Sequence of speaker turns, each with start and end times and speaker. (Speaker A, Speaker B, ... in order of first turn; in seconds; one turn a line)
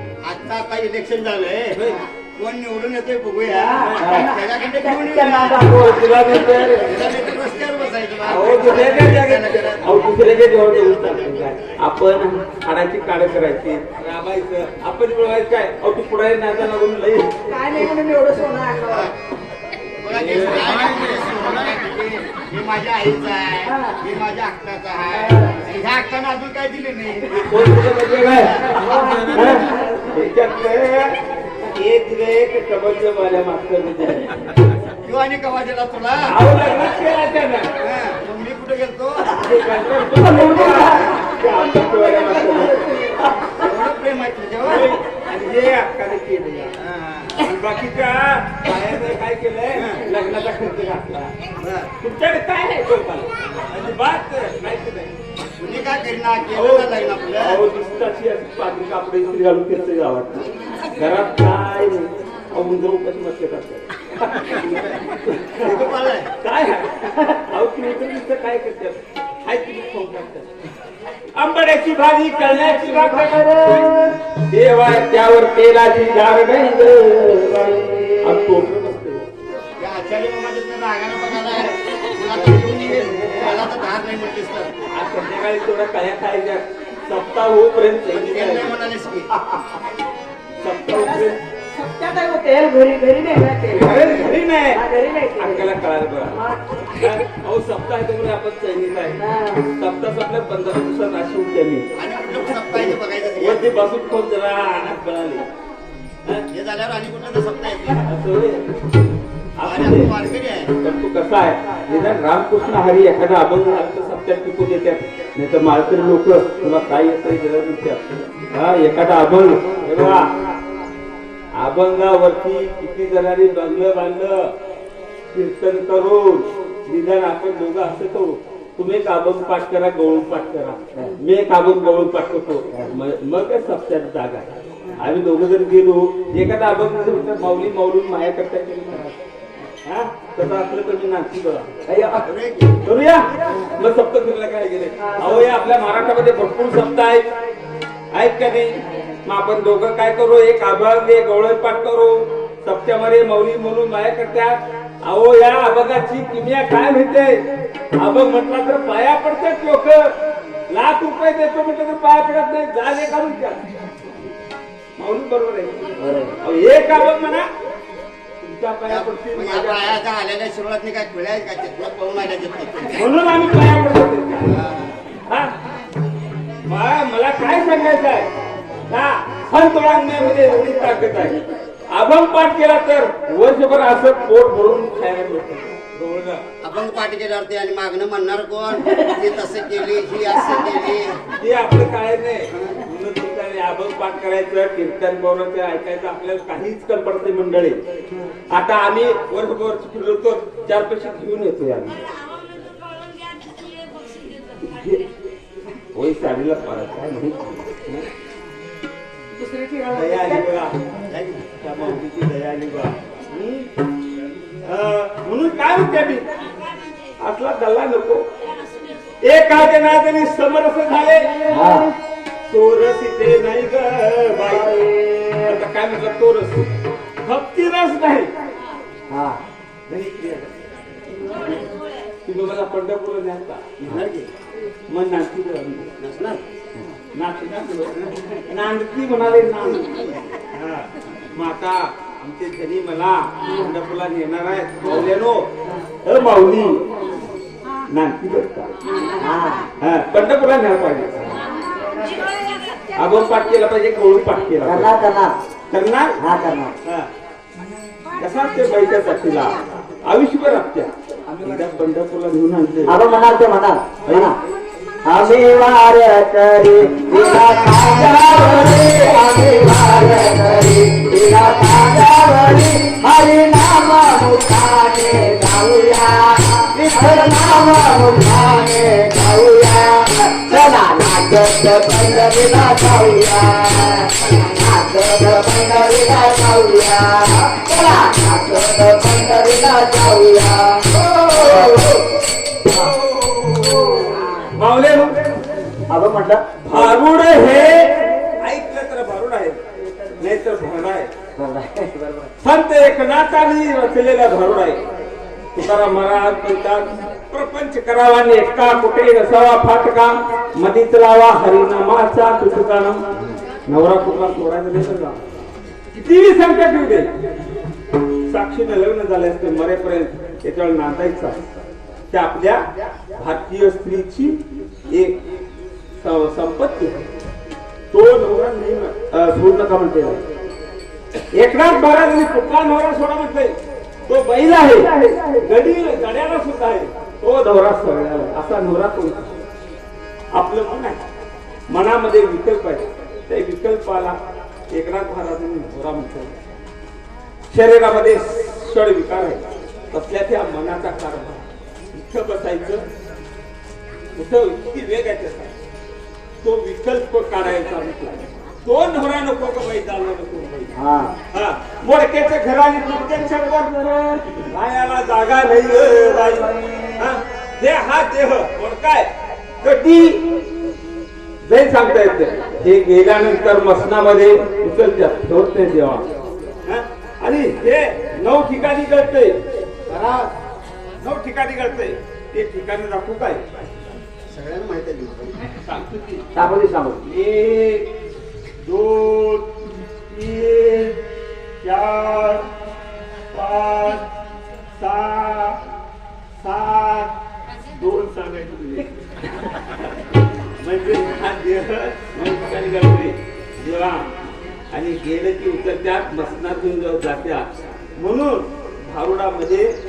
Speaker A: 0.2-5.8
Speaker B: 1.8-2.0
Speaker C: 3.5-6.0
Speaker B: 3.8-4.3
Speaker B: 5.6-7.0
Speaker A: 6.5-10.0
Speaker B: 8.2-17.9
Speaker C: 17.5-19.1
Speaker A: 20.0-27.6
Speaker B: 20.1-21.1
Speaker C: 23.6-24.0
Speaker C: 25.1-25.6
Speaker B: 27.4-28.6
Speaker A: 28.3-29.5
Speaker C: 28.6-30.1
Speaker B: 29.3-31.2
Speaker B: 31.8-34.5
Speaker A: 35.0-36.4
Speaker B: 36.3-37.7
Speaker A: 37.8-39.4
Speaker B: 39.3-43.4
Speaker C: 40.2-43.6
Speaker A: 43.6-44.9
Speaker B: 44.6-46.7
Speaker A: 46.8-47.4
Speaker B: 47.4-51.3
Speaker A: 49.7-50.0
Speaker A: 51.6-51.9
Speaker B: 52.0-55.1
Speaker A: 55.6-57.6
Speaker B: 56.5-70.5
Speaker A: 64.5-65.0
Speaker A: 65.6-66.3
Speaker B: 71.3-73.5
Speaker C: 72.4-74.2
Speaker B: 74.5-79.3
Speaker C: 77.9-78.5
Speaker A: 79.8-84.7
Speaker B: 84.9-88.8
Speaker A: 88.1-89.3
Speaker B: 90.6-91.4
Speaker C: 90.9-95.7
Speaker B: 93.7-94.8
Speaker B: 95.4-96.4
Speaker C: 96.3-96.6
Speaker B: 97.0-99.2
Speaker C: 99.2-99.7
Speaker B: 99.8-101.9
Speaker A: 102.0-103.8
Speaker B: 102.6-105.5
Speaker A: 106.5-108.1
Speaker B: 108.0-108.6
Speaker B: 109.6-110.2
Speaker A: 109.6-110.7
Speaker B: 110.8-120.3
Speaker B: 121.5-124.5
Speaker B: 125.3-139.2
Speaker B: 139.8-141.7
Speaker C: 141.9-142.2
Speaker A: 142.2-142.8
Speaker B: 142.8-147.3
Speaker C: 145.0-145.7
Speaker B: 148.1-157.4
Speaker B: 158.0-160.1
Speaker B: 160.7-163.6
Speaker B: 165.0-167.5
Speaker C: 166.0-166.3
Speaker B: 168.4-170.0
Speaker A: 168.9-173.1
Speaker B: 172.9-174.5
Speaker A: 174.4-175.0
Speaker B: 175.3-175.5
Speaker B: 176.7-178.3
Speaker B: 178.9-181.4
Speaker B: 181.9-186.4
Speaker A: 186.6-191.2
Speaker C: 188.8-189.2
Speaker C: 190.4-190.7
Speaker B: 191.4-197.8
Speaker B: 198.5-202.0
Speaker B: 204.7-205.0
Speaker B: 205.9-208.1
Speaker C: 209.4-210.4
Speaker B: 209.9-210.8
Speaker A: 211.1-211.5
Speaker B: 211.6-213.7
Speaker B: 214.6-216.3
Speaker B: 217.2-218.3
Speaker B: 219.2-221.9
Speaker C: 221.5-221.9
Speaker B: 222.5-224.8
Speaker C: 224.4-225.6
Speaker B: 225.4-226.7
Speaker B: 227.2-228.3
Speaker C: 229.1-229.4
Speaker B: 229.9-230.5
Speaker B: 232.3-234.0
Speaker A: 233.8-234.3
Speaker B: 234.9-235.9
Speaker A: 236.0-236.4
Speaker B: 237.1-245.5
Speaker B: 246.1-246.8
Speaker B: 247.9-248.7
Speaker C: 249.2-249.7
Speaker B: 249.8-251.4
Speaker B: 252.9-254.9
Speaker C: 254.6-255.3
Speaker B: 255.7-256.2
Speaker C: 256.2-256.7
Speaker B: 258.2-262.9
Speaker C: 262.9-264.4
Speaker B: 264.1-264.4
Speaker C: 265.1-292.0
Speaker B: 267.7-269.2
Speaker B: 291.1-292.0
Speaker B: 292.7-295.2
Speaker C: 295.9-296.9
Speaker B: 296.6-299.6
Speaker B: 300.2-301.1
Speaker C: 301.4-302.3
Speaker B: 302.4-304.8
Speaker B: 305.6-313.0
Speaker B: 313.7-315.2
Speaker B: 315.9-317.1
Speaker B: 318.3-321.4
Speaker B: 322.1-322.6
Speaker B: 323.1-325.2
Speaker B: 326.0-327.0
Speaker B: 327.9-330.2
Speaker B: 331.3-339.3
Speaker B: 340.3-341.0
Speaker B: 341.7-344.2
Speaker B: 344.7-346.4
Speaker B: 347.5-352.9
Speaker B: 354.2-355.5
Speaker B: 356.4-360.8
Speaker C: 360.8-361.1
Speaker B: 361.3-369.1
Speaker B: 369.6-370.2
Speaker B: 371.4-376.1
Speaker B: 376.7-379.4
Speaker A: 379.9-380.3
Speaker B: 381.0-383.4
Speaker A: 384.3-385.3
Speaker B: 385.6-386.3
Speaker C: 386.4-387.0
Speaker B: 387.0-387.9
Speaker B: 388.6-389.5
Speaker B: 390.1-391.0
Speaker B: 391.6-392.4
Speaker B: 393.3-394.0
Speaker B: 394.8-395.6
Speaker B: 396.4-397.1
Speaker B: 397.8-399.9
Speaker B: 400.6-404.1
Speaker B: 404.7-409.7